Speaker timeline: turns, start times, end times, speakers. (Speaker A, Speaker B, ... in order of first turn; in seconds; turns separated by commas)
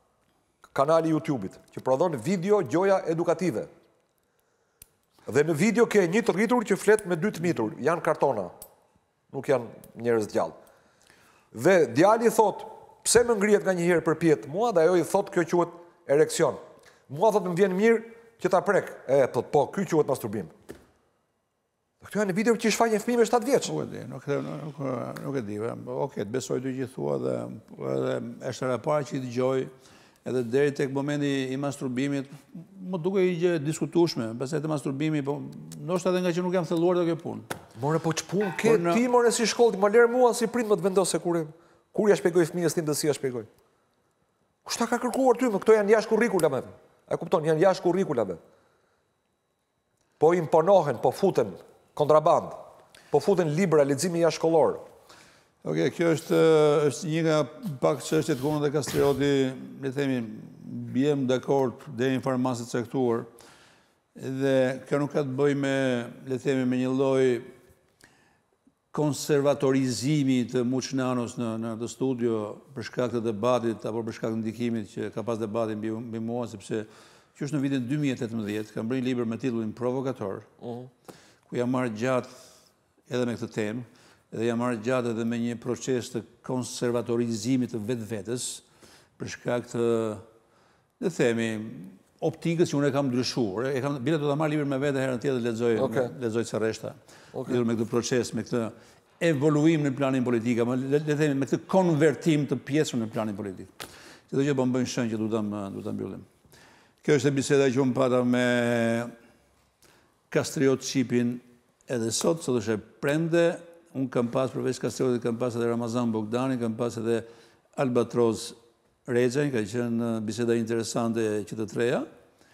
Speaker A: 0.7-3.7, Speaker A: 5.3-8.5, Speaker A: 9.3-10.6, Speaker A: 11.5-20.5, Speaker A: 22.0-23.7, Speaker B: 23.6-29.7, Speaker B: 30.2-37.5, Speaker A: 37.8-43.5, Speaker B: 38.6-39.0, Speaker A: 44.6-48.4, Speaker A: 50.2-52.6, Speaker A: 53.1-54.8, Speaker B: 55.6-63.3, Speaker B: 64.2-67.5, Speaker B: 68.9-80.5, Speaker A: 80.6-80.9, Speaker B: 81.5-82.3, Speaker B: 83.1-88.6, Speaker B: 89.2-90.2, Speaker B: 91.0-103.7, Speaker A: 95.8-96.1, Speaker A: 97.3-97.6, Speaker B: 104.3-106.3, Speaker B: 107.0-109.1, Speaker B: 110.3-122.1